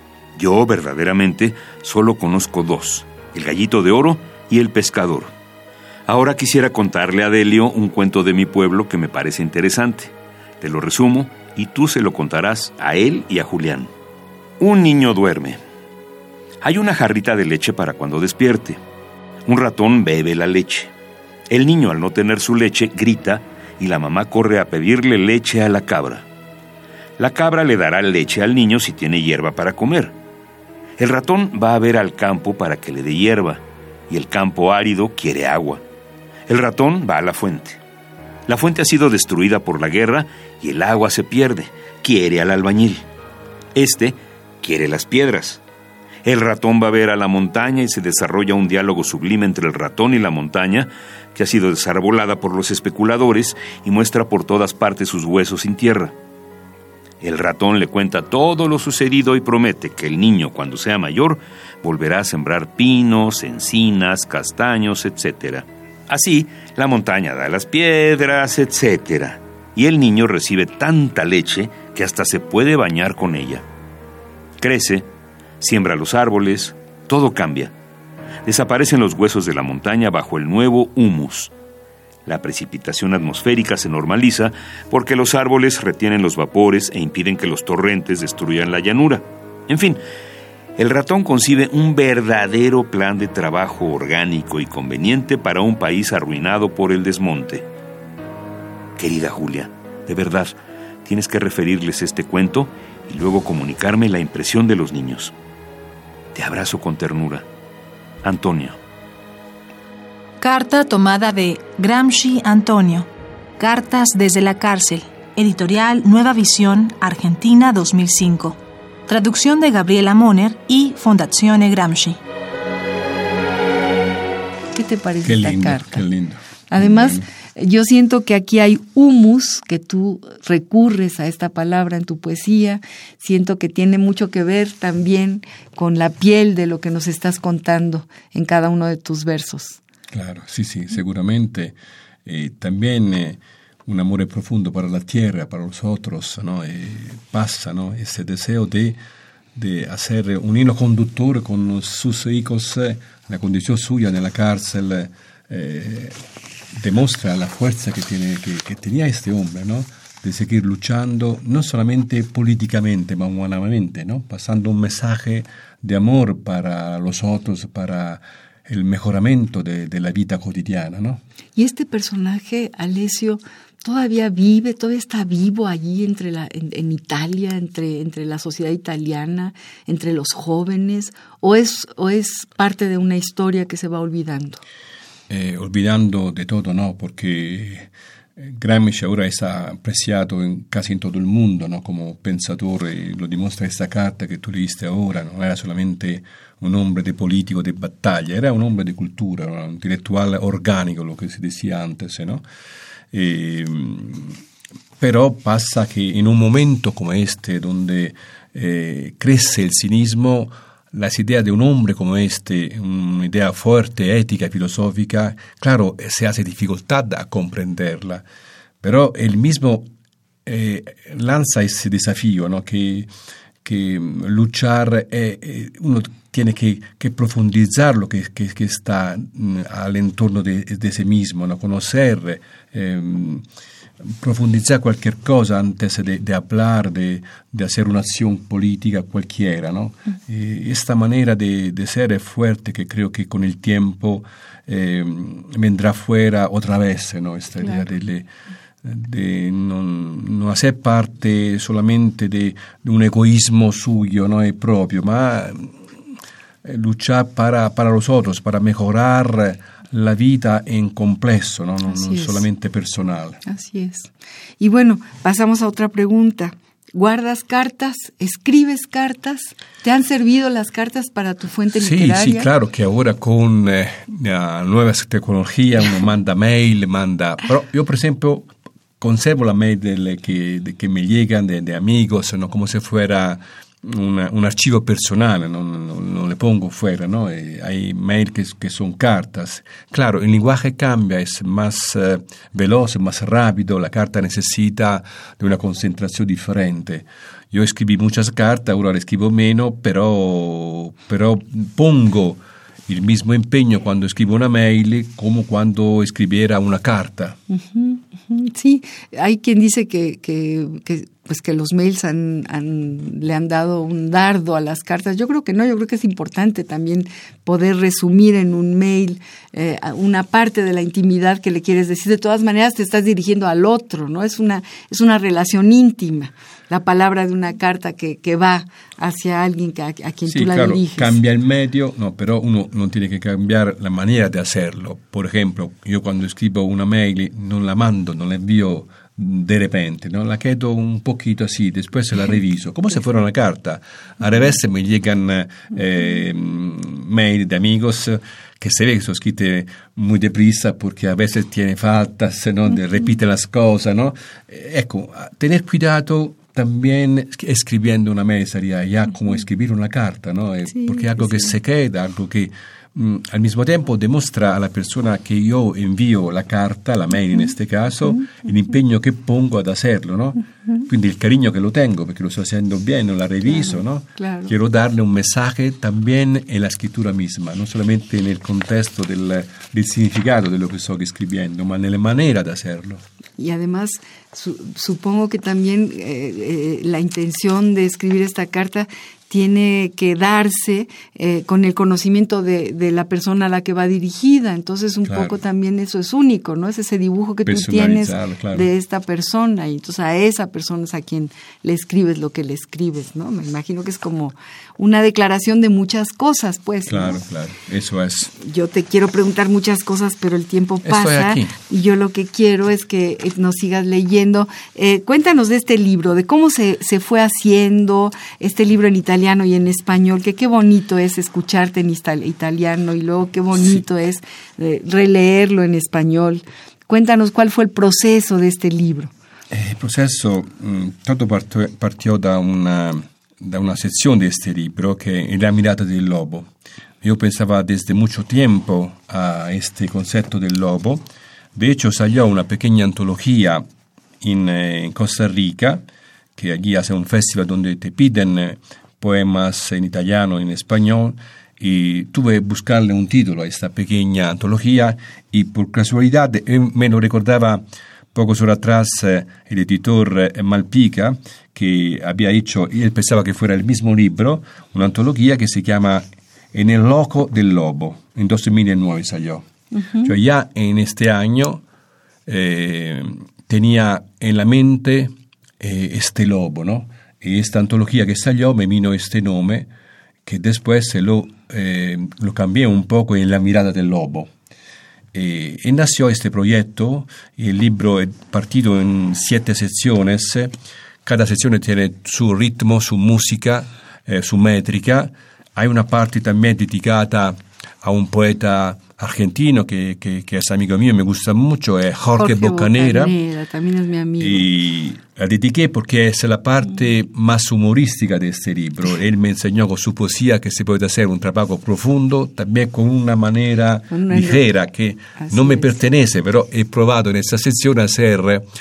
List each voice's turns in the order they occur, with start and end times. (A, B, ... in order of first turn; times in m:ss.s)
0:00.4-0:05.3 A
0:06.1-0:13.9 A
0:14.6-0:15.6 A
0:16.6-0:18.8 A
0:19.4-0:20.9 A
0:21.5-0:26.2 A
0:27.2-0:30.1 A
0:31.0-0:35.8 A
0:36.5-0:37.8 A
0:38.5-0:43.0 A
0:43.7-0:45.6 A
0:46.2-0:56.1 A
0:57.2-1:13.6 A
1:14.6-1:15.1 A
1:15.6-1:17.7 A
1:18.4-1:21.5 A
1:22.2-1:30.0 A
1:30.8-1:37.7 A
1:39.0-1:45.3 A
1:46.3-1:47.4 A
1:48.2-1:48.8 A
1:50.4-1:53.1 B
1:53.6-2:02.2 B
2:04.7-2:06.0 C
2:05.2-2:07.3 D
2:06.7-2:19.8 C
2:20.1-2:21.7 D
2:22.2-2:29.0 D
2:29.5-2:36.2 D
2:36.7-2:51.2 D
2:51.6-3:04.6 C
3:05.3-3:22.4 D
3:23.1-3:24.4 D
3:25.0-3:38.2 D
3:38.8-3:39.9 D
3:40.4-3:43.1 D
3:43.6-3:53.4 D
3:54.0-4:08.3 D
4:08.8-4:15.7 D
4:16.6-4:23.4 D
4:21.8-4:22.4 C
4:23.4-4:32.5 C
4:31.7-5:07.4 D
5:07.5-5:31.2 C
5:30.2-6:23.0 D
6:00.7-6:01.5 C
6:13.4-6:14.5 C
6:23.4-6:47.2 C
6:35.0-6:35.4 D
6:37.4-6:38.7 D
6:46.9-6:48.3 D
6:48.4-7:09.1 C
6:50.8-6:51.5 D
7:03.5-7:03.8 D
7:09.5-7:16.5 D
7:17.0-7:23.6 D
7:24.2-7:25.8 D
7:26.4-7:49.5 D
7:49.8-7:50.1 C
7:50.0-7:51.6 D
7:52.2-7:59.7 D
8:00.2-8:04.3 D
8:05.1-8:10.5 D
8:11.0-8:23.1 D
8:22.2-8:24.5 C
8:24.2-8:38.4 D
8:33.9-8:34.4 C
8:35.2-8:35.7 C